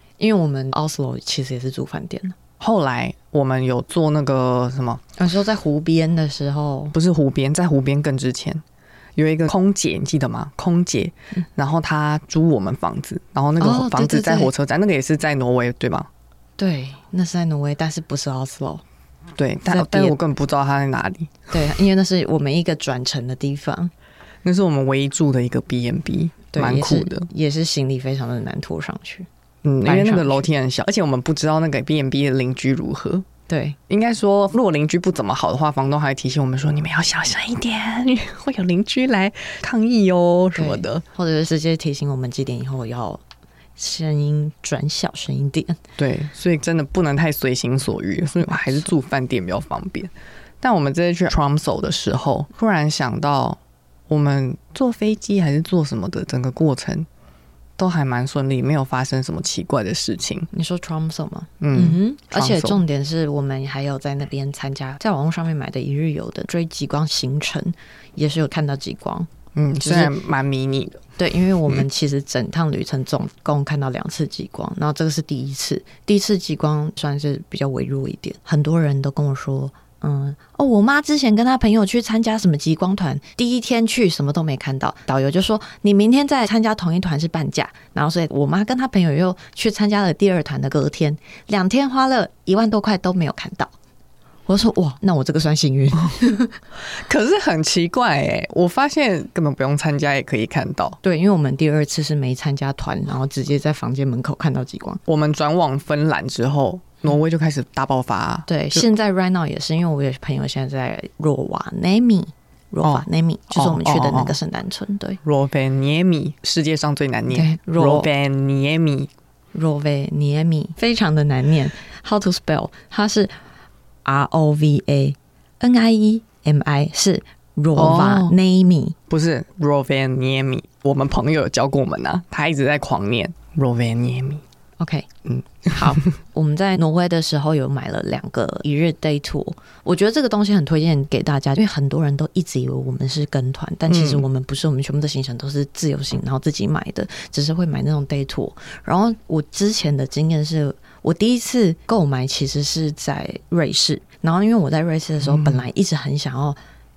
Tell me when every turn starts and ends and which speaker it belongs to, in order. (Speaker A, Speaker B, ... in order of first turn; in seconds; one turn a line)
Speaker A: 0.2-2.4
Speaker B: 2.6-5.0
Speaker A: 5.2-7.0
Speaker B: 6.9-8.6
Speaker B: 9.2-16.1
Speaker A: 13.6-14.5
Speaker A: 16.6-18.8
Speaker B: 19.4-21.3
Speaker A: 19.7-20.1
Speaker A: 21.5-23.9
Speaker B: 24.4-27.3
Speaker A: 26.5-29.3
Speaker B: 29.6-33.2
Speaker A: 29.8-30.5
Speaker A: 33.5-33.8
Speaker B: 33.9-41.0
Speaker A: 40.5-43.2
Speaker A: 43.8-45.8
Speaker B: 46.0-57.1
Speaker A: 48.5-48.9
Speaker B: 57.8-60.5
Speaker A: 60.5-69.3
Speaker B: 61.6-62.8
Speaker B: 69.5-71.0
Speaker A: 69.8-70.1
Speaker A: 71.2-93.7
Speaker A: 94.5-96.5
Speaker B: 96.9-101.0
Speaker A: 101.0-105.0
Speaker B: 105.0-108.8
Speaker A: 108.5-115.2
Speaker B: 112.8-114.3
Speaker B: 115.2-119.1
Speaker A: 117.3-118.1
Speaker A: 119.5-123.3
Speaker A: 124.0-128.9
Speaker B: 127.7-128.4
Speaker B: 129.1-134.4
Speaker A: 134.8-135.1
Speaker B: 135.2-136.0
Speaker A: 135.7-156.6
Speaker B: 143.9-144.2
Speaker B: 155.2-155.6